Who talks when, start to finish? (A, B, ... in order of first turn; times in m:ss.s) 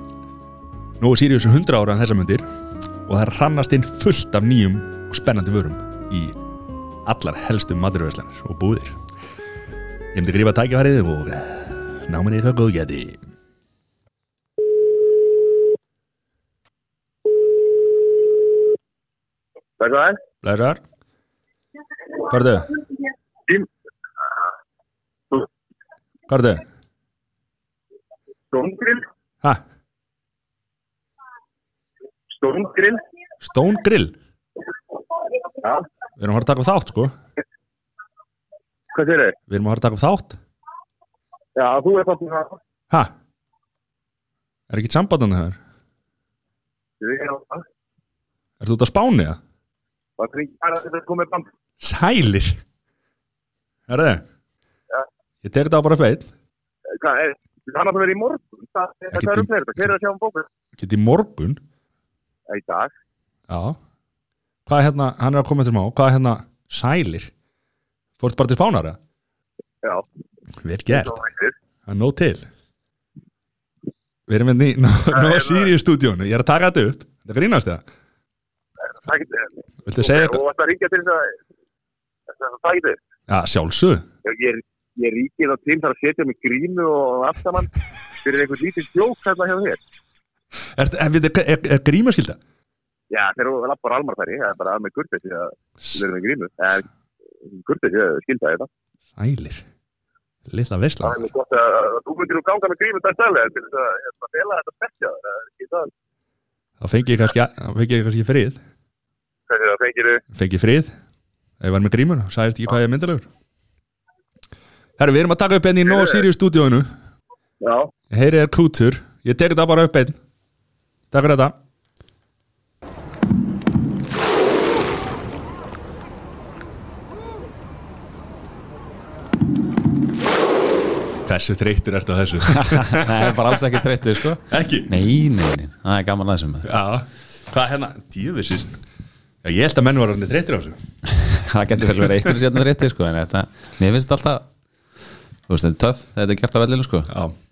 0:01.0-0:02.4 A
0:03.0-0:06.4 A
0:07.0-0:09.0 A
0:10.1-0:13.2 A
0:19.8-0:20.2 B
0:20.4-0:20.8 A
0:22.2-0:22.7 A
0:26.3-0:26.6 A
0:28.5-0:29.0 B
0:32.3-0:33.0 B
0:33.4-0:34.2 A
0:35.3-0:35.8 B
0:36.2-0:37.1 A
0:38.9-0:39.4 B
0:39.5-0:40.4 A
0:41.6-0:42.6 B
0:44.7-0:45.6 A
0:47.0-0:47.6 B
0:48.6-0:49.4 A
0:50.2-0:51.5 B
0:51.8-0:52.6 A
0:53.9-0:54.2 A
0:55.4-0:56.3 A
0:56.9-1:00.5 B
0:59.1-0:59.5 A
1:00.8-1:01.6 A
1:02.5-1:02.9 B
1:03.5-1:03.8 A
1:04.6-1:07.3 A
1:08.2-1:09.0 A
1:10.6-1:11.1 A
1:10.9-1:11.5 B
1:11.8-1:12.5 A
1:14.3-1:17.8 A
1:15.1-1:15.7 B
1:19.0-1:21.4 B
1:19.8-1:20.4 A
1:22.3-1:23.0 B
1:23.3-1:24.0 A
1:24.2-1:27.7 B
1:28.2-1:29.8 B
1:30.7-1:32.4 A
1:33.1-1:36.8 B
1:37.4-1:38.7 B
1:39.2-1:39.6 A
1:40.5-1:41.2 A
1:41.0-1:45.9 B
1:46.8-1:48.6 A
1:49.5-1:50.2 B
1:50.3-1:51.0 A
1:51.6-1:53.2 A
1:55.0-1:56.9 A
1:56.0-1:56.2 B
1:57.6-1:57.9 B
1:58.1-2:00.2 A
2:01.1-2:01.5 A
2:11.2-2:13.5 A
2:12.4-2:16.7 C
2:14.4-2:15.0 A
2:16.6-2:18.7 A
2:19.4-2:20.8 A
2:21.1-2:24.4 C
2:25.5-2:27.1 C
2:27.1-2:27.4 A